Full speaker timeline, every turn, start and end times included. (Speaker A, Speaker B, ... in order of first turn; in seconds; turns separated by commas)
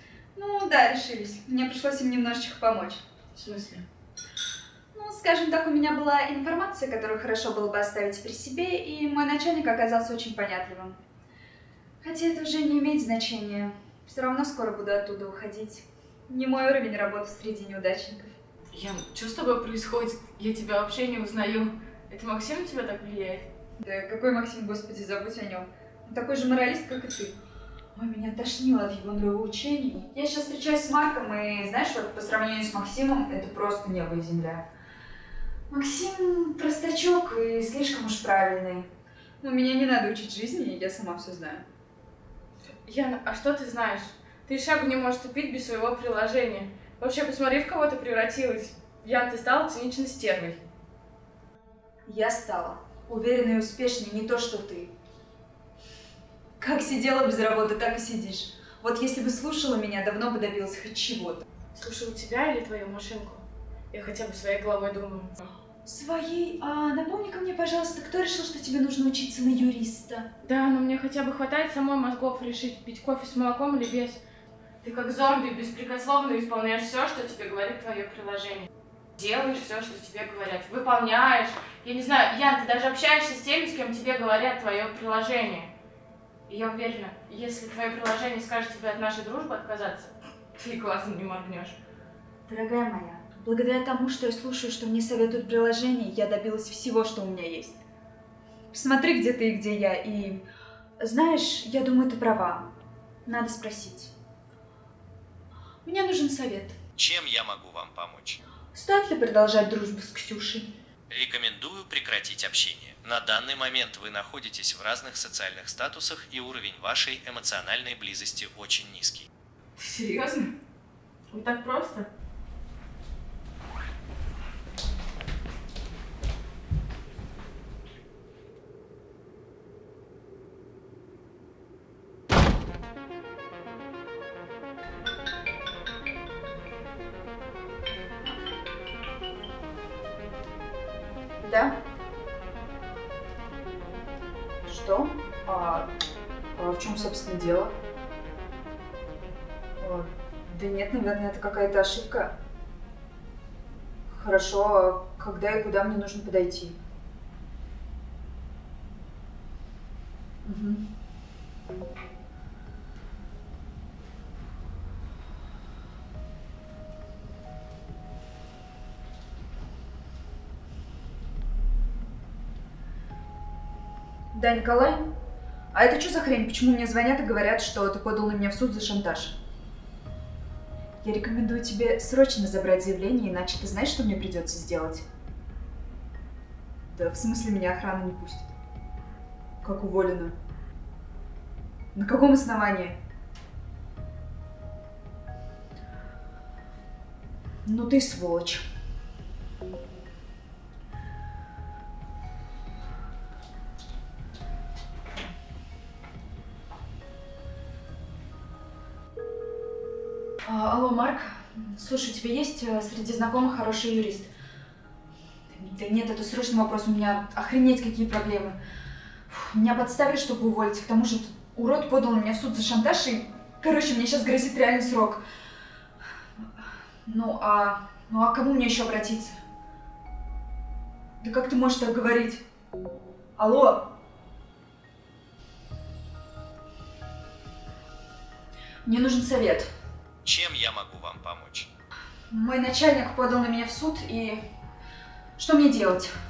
Speaker A: 0.3-3.0, Speaker B: 3.3-3.8, Speaker A: 4.9-11.0, Speaker A: 12.0-18.3, Speaker B: 18.7-23.5, Speaker A: 23.8-27.4, Speaker A: 27.9-34.6, Speaker A: 35.7-38.9, Speaker A: 39.4-41.6, Speaker B: 42.9-50.6, Speaker A: 52.1-54.9, Speaker A: 56.6-61.4, Speaker B: 61.7-65.5, Speaker A: 65.8-70.3, Speaker B: 70.4-74.2, Speaker B: 74.8-85.7, Speaker B: 86.5-91.8, Speaker A: 92.5-97.8, Speaker A: 98.7-100.4, Speaker A: 101.0-102.7, Speaker A: 103.2-104.1, Speaker A: 105.8-106.8, Speaker C: 107.0-108.4, Speaker A: 108.7-110.7, Speaker C: 111.1-119.3, Speaker B: 119.8-120.5, Speaker B: 121.3-122.1, Speaker A: 141.4-141.8, Speaker A: 144.7-145.9, Speaker A: 146.5-147.7, Speaker A: 149.8-152.3, Speaker A: 154.1-156.8, Speaker A: 160.4-160.8, Speaker A: 174.3-175.1, Speaker A: 175.7-179.4, Speaker A: 181.0-185.0, Speaker A: 186.9-188.5, Speaker A: 189.6-190.3, Speaker A: 191.9-192.9, Speaker A: 197.7-198.6, Speaker A: 210.4-214.3, Speaker A: 215.5-218.6, Speaker A: 219.3-225.2, Speaker A: 227.1-229.4, Speaker A: 231.2-232.4, Speaker A: 233.4-233.9, Speaker A: 238.8-239.7, Speaker C: 240.2-241.7, Speaker A: 242.3-244.4, Speaker A: 245.4-246.1